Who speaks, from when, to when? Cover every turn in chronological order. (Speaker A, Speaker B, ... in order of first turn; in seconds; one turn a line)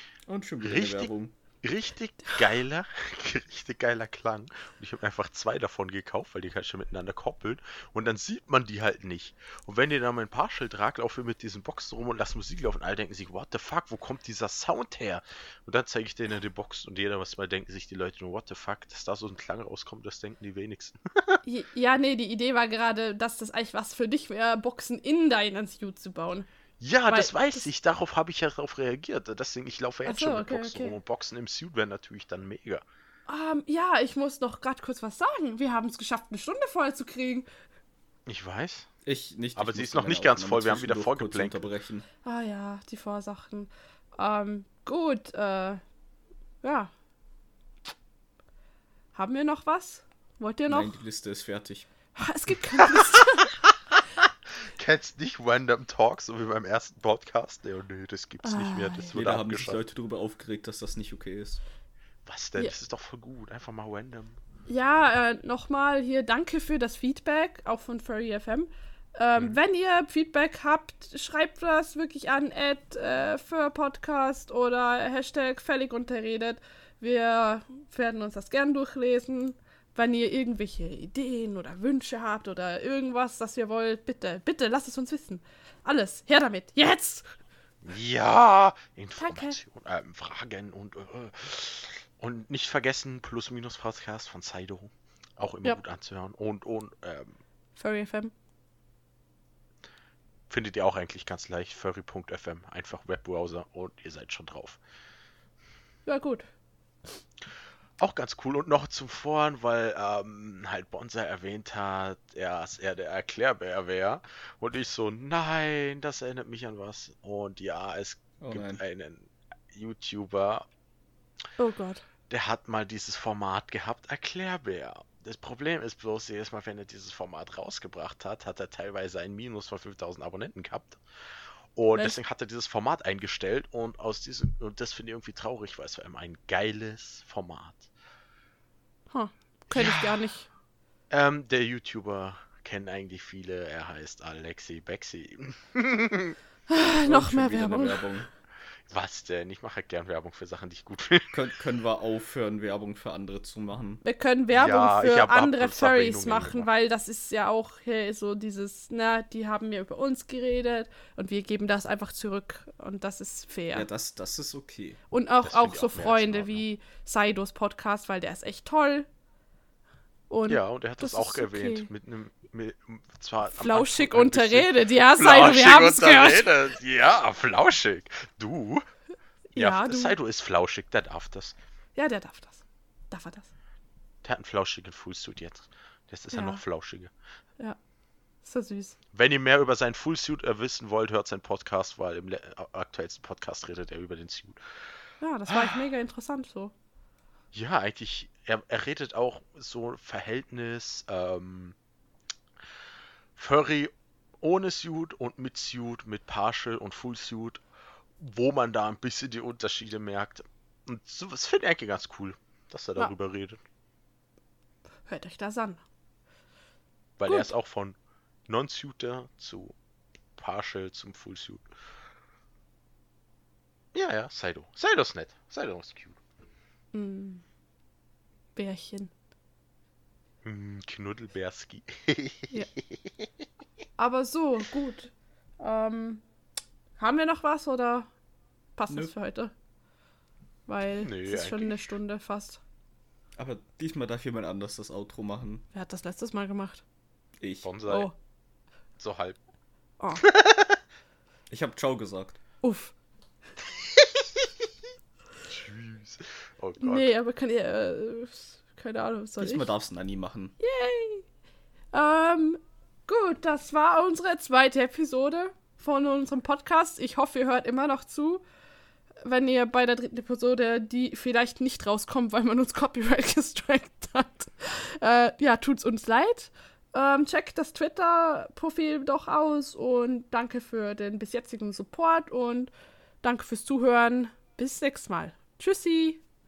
Speaker A: 0.3-1.3
Speaker B: 0.6-1.1
Speaker B: 1.6-21.4
Speaker C: 21.4-26.5
Speaker B: 26.8-32.8
Speaker C: 27.1-27.7
Speaker C: 30.0-30.9
Speaker C: 33.3-37.5
Speaker B: 38.2-38.9
Speaker A: 39.0-42.0
Speaker B: 39.5-41.6
Speaker C: 42.2-45.8
Speaker C: 46.6-46.9
Speaker C: 49.1-50.9
Speaker A: 50.7-51.9
Speaker C: 52.1-53.5
Speaker B: 54.7-59.8
Speaker C: 58.4-59.1
Speaker A: 59.1-61.6
Speaker B: 62.2-64.4
Speaker C: 64.7-87.2
Speaker B: 87.8-97.4
Speaker C: 89.2-89.6
Speaker C: 97.8-98.3
Speaker B: 100.5-104.8
Speaker C: 106.0-106.5
Speaker B: 108.0-120.7
Speaker A: 118.4-118.8
Speaker C: 121.6-122.0
Speaker B: 122.3-131.0
Speaker B: 131.7-137.9
Speaker C: 139.1-140.5
Speaker B: 139.7-140.2
Speaker B: 141.1-146.3
Speaker C: 146.7-148.1
Speaker A: 146.8-148.3
Speaker B: 148.9-151.4
Speaker A: 151.3-154.0
Speaker C: 154.0-163.9
Speaker B: 154.5-156.7
Speaker A: 163.7-165.0
Speaker C: 165.1-169.1
Speaker B: 165.4-166.6
Speaker C: 170.3-171.9
Speaker B: 170.5-178.8
Speaker C: 173.5-176.5
Speaker C: 179.5-180.2
Speaker B: 179.6-181.5
Speaker C: 181.9-183.5
Speaker B: 184.2-187.1
Speaker C: 186.3-186.6
Speaker C: 188.4-188.9
Speaker B: 189.1-194.8
Speaker C: 195.2-196.7
Speaker B: 195.5-195.8
Speaker B: 197.5-201.8
Speaker B: 203.3-207.6
Speaker B: 208.2-213.6
Speaker C: 215.1-215.8
Speaker B: 217.2-217.9
Speaker C: 217.2-217.5
Speaker B: 218.5-219.7
Speaker B: 220.4-221.7
Speaker B: 223.9-226.2
Speaker C: 226.9-227.4
Speaker C: 228.6-229.1
Speaker B: 230.4-232.8
Speaker C: 234.0-236.2
Speaker C: 237.0-238.1
Speaker C: 238.8-239.5
Speaker C: 240.7-242.6
Speaker B: 241.0-241.8
Speaker A: 243.4-245.6
Speaker C: 245.7-246.8
Speaker A: 247.4-247.7
Speaker B: 247.6-248.1
Speaker C: 247.9-248.1
Speaker B: 249.0-249.4
Speaker C: 250.0-250.2
Speaker B: 250.3-250.7
Speaker A: 251.5-252.4
Speaker C: 252.6-252.9
Speaker B: 255.4-257.1
Speaker C: 256.8-259.7
Speaker A: 259.4-260.5
Speaker C: 260.6-261.2
Speaker C: 261.9-268.4
Speaker C: 269.2-282.7
Speaker C: 283.2-286.2